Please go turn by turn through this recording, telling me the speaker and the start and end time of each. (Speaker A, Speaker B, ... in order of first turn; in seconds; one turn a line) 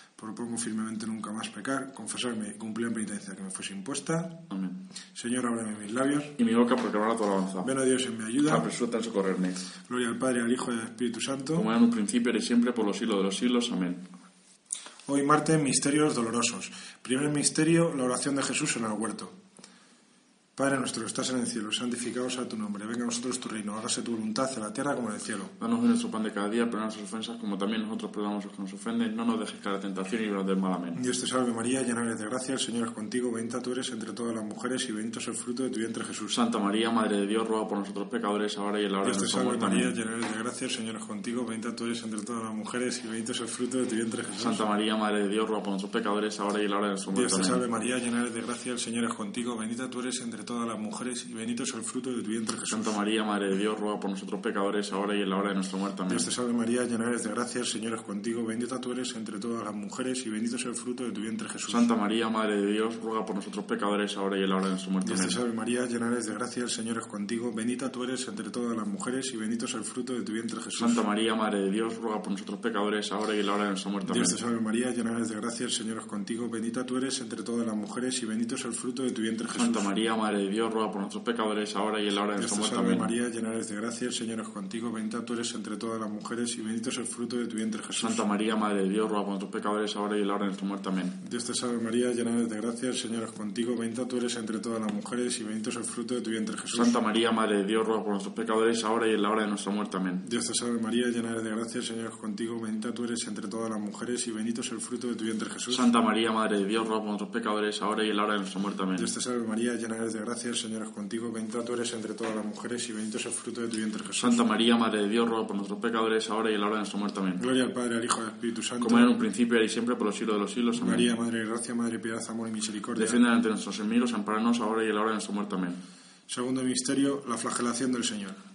Speaker A: 0.2-4.4
Speaker B: 4.5-4.8
Speaker A: 5.2-6.3
Speaker B: 6.4-7.7
Speaker A: 7.6-8.7
Speaker B: 8.4-9.7
Speaker A: 9.9-11.7
Speaker B: 11.5-14.1
Speaker A: 15.1-19.3
Speaker A: 20.6-25.5
Speaker B: 25.6-31.0
Speaker A: 30.9-36.4
Speaker B: 36.3-39.9
Speaker A: 39.0-44.6
Speaker B: 44.4-47.7
Speaker A: 47.1-53.0
Speaker B: 52.7-56.3
Speaker A: 56.1-61.9
Speaker B: 61.7-65.4
Speaker A: 65.0-71.0
Speaker B: 70.8-74.4
Speaker A: 74.1-79.9
Speaker B: 79.6-83.1
Speaker A: 82.4-88.2
Speaker B: 88.0-91.2
Speaker A: 91.2-97.0
Speaker B: 96.7-100.2
Speaker A: 100.2-105.9
Speaker B: 105.7-109.1
Speaker A: 109.0-114.4
Speaker B: 114.2-117.5
Speaker A: 117.4-119.1
Speaker B: 118.8-121.1
Speaker A: 120.8-123.2
Speaker B: 123.0-125.8
Speaker A: 126.3-128.4